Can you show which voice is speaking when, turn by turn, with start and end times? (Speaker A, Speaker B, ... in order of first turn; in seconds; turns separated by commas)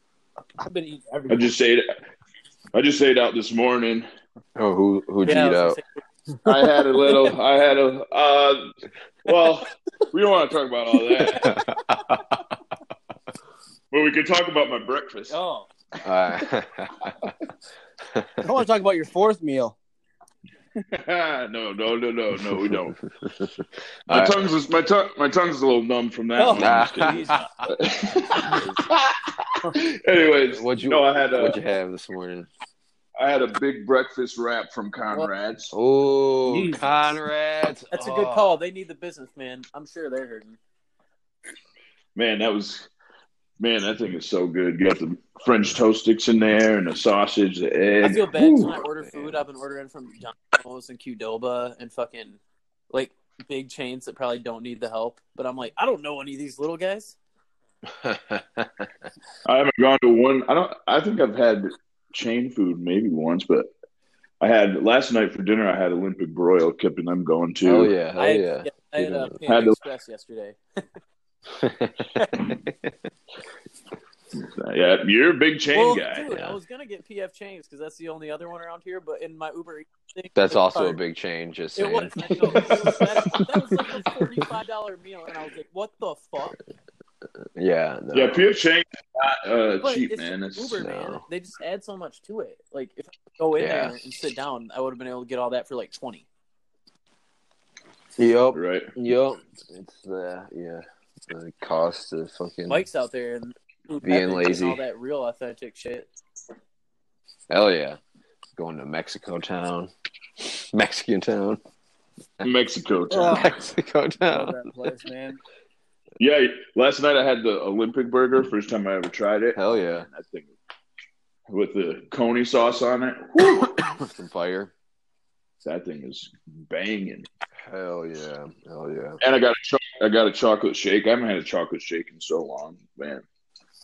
Speaker A: 0.6-1.5, Speaker B: 1.3-1.9, Speaker B: 2.7-4.0, Speaker C: 4.5-5.8, Speaker D: 5.2-6.0, Speaker B: 6.4-8.7, Speaker B: 9.2-11.6, Speaker C: 11.3-12.5, Speaker B: 13.9-15.3, Speaker D: 15.3-15.7, Speaker C: 16.0-17.3, Speaker C: 18.0-18.5, Speaker A: 18.4-19.7, Speaker B: 20.9-23.0, Speaker C: 22.7-24.5, Speaker B: 24.1-31.6, Speaker A: 26.4-27.3, Speaker C: 26.5-27.7, Speaker D: 27.0-27.4, Speaker C: 28.4-28.8, Speaker C: 30.5-32.5, Speaker B: 33.2-35.7, Speaker C: 35.7-38.5, Speaker A: 36.5-36.9, Speaker D: 37.9-40.6, Speaker B: 42.1-42.9, Speaker B: 43.6-48.7, Speaker D: 48.0-52.4, Speaker C: 49.1-49.4, Speaker D: 52.9-57.1, Speaker C: 57.9-58.9, Speaker B: 59.4-63.7, Speaker B: 64.4-67.9, Speaker C: 67.6-69.4, Speaker D: 68.2-70.8, Speaker B: 69.5-69.8, Speaker C: 71.5-72.9, Speaker B: 74.3-76.3, Speaker D: 75.7-81.0, Speaker C: 76.3-76.6, Speaker C: 80.3-83.0, Speaker D: 81.8-86.5, Speaker C: 87.6-88.5, Speaker B: 88.1-90.8, Speaker D: 89.8-96.2, Speaker C: 90.8-91.2, Speaker C: 93.6-94.0, Speaker C: 98.2-102.8, Speaker B: 98.5-98.9, Speaker D: 102.7-106.1, Speaker C: 104.0-104.8, Speaker C: 107.5-108.0, Speaker C: 108.5-111.6, Speaker B: 112.4-113.5, Speaker A: 113.1-113.5, Speaker C: 113.2-114.6, Speaker A: 114.3-115.4, Speaker B: 116.2-120.5, Speaker C: 119.5-120.1, Speaker B: 121.5-124.0, Speaker C: 123.8-124.7, Speaker B: 125.6-127.3, Speaker C: 127.7-129.2, Speaker B: 129.2-133.2